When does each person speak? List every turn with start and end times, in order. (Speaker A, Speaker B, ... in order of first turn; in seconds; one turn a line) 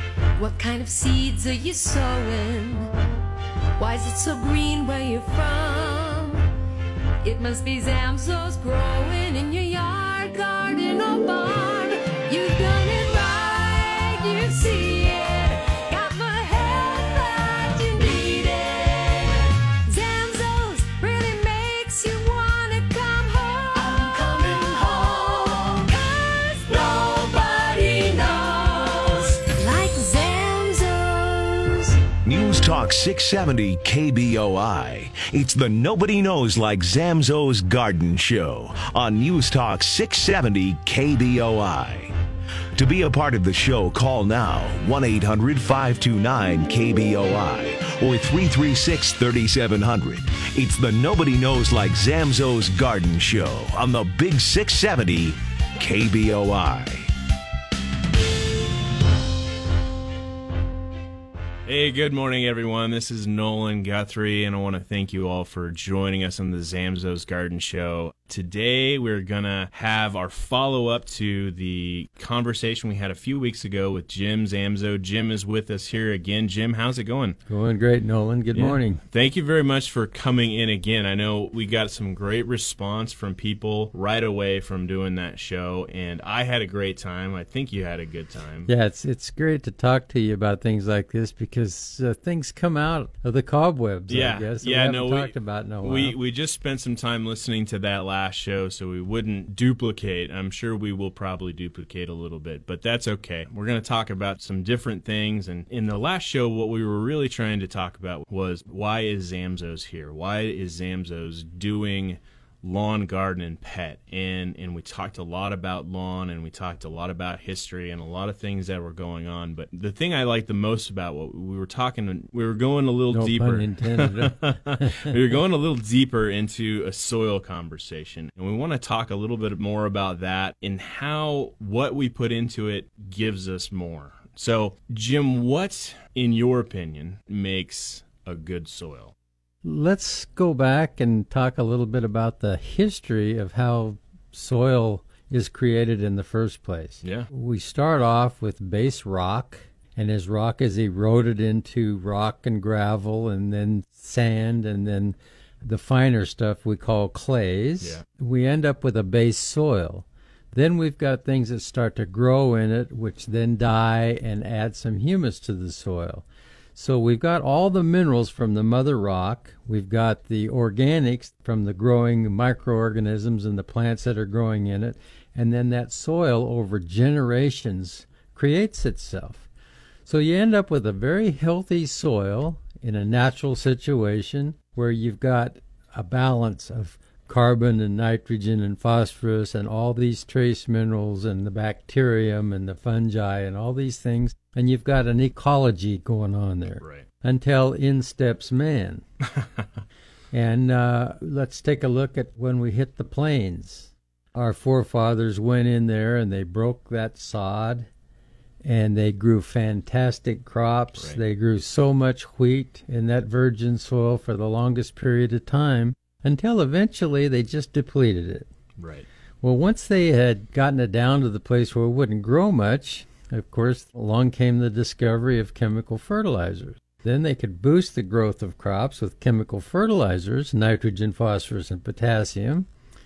Speaker A: 0.4-2.9
Speaker A: 3.8-6.5
Speaker A: 7.2-32.0
Speaker B: 32.2-42.1
Speaker B: 42.8-57.1
Speaker C: 61.7-77.4
Speaker D: 77.5-79.0
Speaker C: 78.5-88.7
Speaker D: 88.7-96.2
Speaker C: 94.1-139.1
Speaker D: 123.1-125.2
Speaker D: 139.6-179.5
Speaker C: 147.0-147.3
Speaker D: 180.1-199.1
Speaker C: 196.8-197.1
Speaker D: 200.3-207.9
Speaker D: 208.6-218.5
Speaker C: 218.8-219.1
Speaker D: 219.4-232.7